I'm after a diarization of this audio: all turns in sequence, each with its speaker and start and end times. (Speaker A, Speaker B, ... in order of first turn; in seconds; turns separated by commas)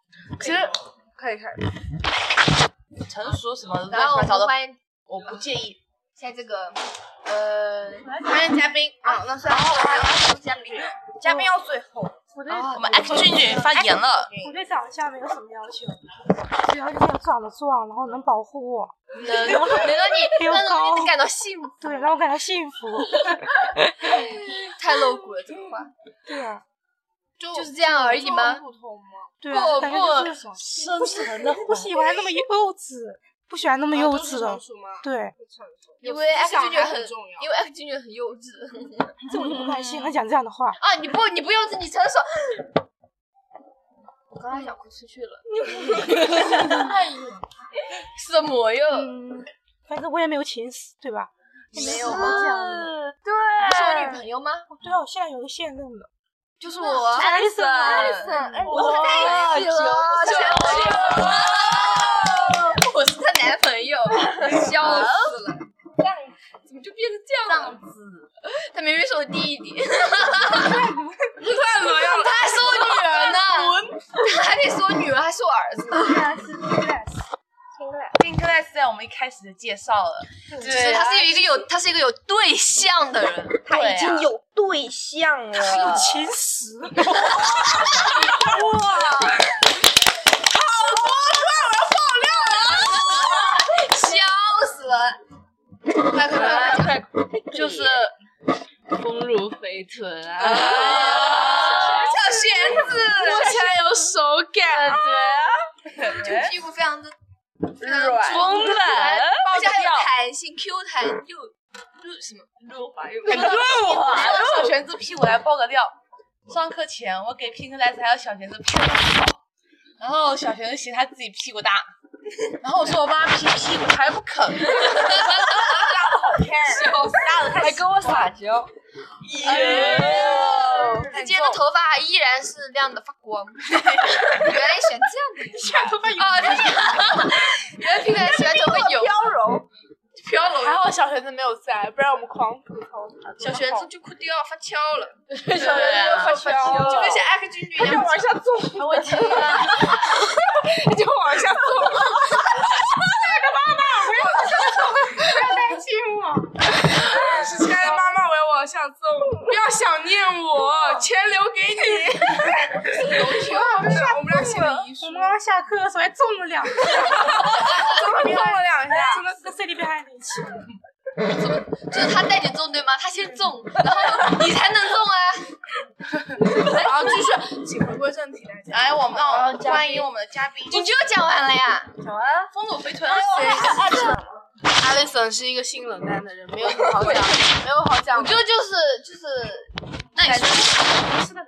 Speaker A: 0.4-1.6, Speaker B: 3.0-4.5, Speaker C: 3.9-5.4, Speaker B: 5.1-5.8, Speaker C: 6.1-8.2, Speaker A: 8.2-10.3, Speaker C: 9.0-11.0, Speaker D: 9.5-10.0, Speaker D: 11.2-12.2, Speaker E: 12.3-13.5, Speaker C: 12.5-13.6, Speaker B: 12.5-14.3, Speaker D: 13.2-14.6, Speaker E: 14.3-16.0, Speaker E: 16.6-21.2, Speaker C: 19.1-21.9, Speaker E: 21.8-24.3, Speaker C: 24.0-25.9, Speaker E: 26.2-26.6, Speaker A: 27.4-29.4, Speaker C: 27.5-28.6, Speaker E: 29.4-35.3, Speaker C: 29.4-30.4, Speaker B: 29.8-32.1, Speaker A: 33.9-37.5, Speaker C: 36.0-39.2, Speaker E: 39.2-40.8, Speaker C: 40.8-42.7, Speaker C: 44.3-47.4, Speaker E: 45.9-46.9, Speaker C: 47.9-49.1, Speaker E: 48.9-53.1, Speaker C: 51.7-52.6, Speaker B: 52.0-52.9, Speaker C: 53.3-54.7, Speaker E: 53.6-56.1, Speaker C: 56.6-65.7, Speaker E: 57.0-58.8, Speaker D: 57.2-61.4, Speaker B: 57.5-58.0, Speaker B: 58.6-62.8, Speaker A: 60.5-61.0, Speaker D: 64.5-65.1, Speaker B: 64.6-65.3, Speaker D: 66.0-66.3, Speaker C: 66.7-67.8, Speaker B: 67.7-68.2, Speaker C: 68.4-70.9, Speaker E: 70.5-71.1, Speaker A: 71.4-73.9, Speaker C: 71.5-76.3, Speaker E: 75.9-77.2, Speaker D: 77.8-78.2, Speaker B: 78.2-81.5, Speaker E: 80.5-80.8, Speaker C: 80.6-83.6, Speaker D: 83.7-86.3, Speaker B: 83.7-84.3, Speaker E: 85.6-87.3, Speaker B: 87.1-89.1, Speaker C: 88.3-89.3, Speaker A: 90.5-92.7, Speaker C: 92.6-95.2, Speaker C: 96.1-97.9, Speaker D: 96.2-97.0, Speaker B: 96.2-98.1, Speaker A: 96.4-96.8, Speaker D: 97.5-98.0, Speaker C: 99.0-103.6, Speaker B: 100.3-103.4, Speaker D: 100.5-102.8, Speaker A: 100.5-105.0, Speaker B: 104.7-106.6, Speaker C: 104.8-107.1, Speaker B: 107.8-110.1, Speaker C: 107.8-114.7, Speaker D: 107.8-108.5, Speaker B: 113.2-116.0, Speaker A: 113.3-114.2, Speaker B: 116.5-119.4, Speaker B: 120.0-121.9, Speaker B: 122.6-125.6, Speaker C: 124.8-125.9, Speaker D: 125.6-128.2, Speaker A: 125.9-126.8, Speaker C: 126.5-128.7, Speaker C: 129.3-139.3, Speaker B: 129.4-130.8, Speaker D: 129.4-131.1, Speaker A: 129.4-131.6, Speaker B: 133.7-134.4, Speaker A: 135.6-137.2, Speaker D: 138.1-139.7, Speaker C: 140.4-140.7, Speaker A: 140.4-143.9, Speaker C: 143.4-148.2, Speaker A: 145.4-165.4, Speaker B: 145.5-146.8, Speaker D: 146.1-147.2, Speaker C: 148.7-150.2, Speaker D: 149.0-149.6, Speaker C: 162.8-164.7, Speaker E: 165.0-170.7, Speaker A: 166.9-169.3, Speaker C: 167.5-167.9, Speaker C: 171.3-175.5, Speaker C: 176.4-177.2, Speaker A: 176.6-179.1, Speaker B: 178.7-181.0, Speaker C: 179.1-180.1, Speaker C: 180.7-182.3, Speaker B: 182.4-184.0, Speaker D: 183.1-184.4, Speaker C: 183.3-184.1, Speaker A: 184.8-188.4, Speaker C: 186.6-187.5, Speaker C: 188.1-191.2, Speaker B: 190.2-190.5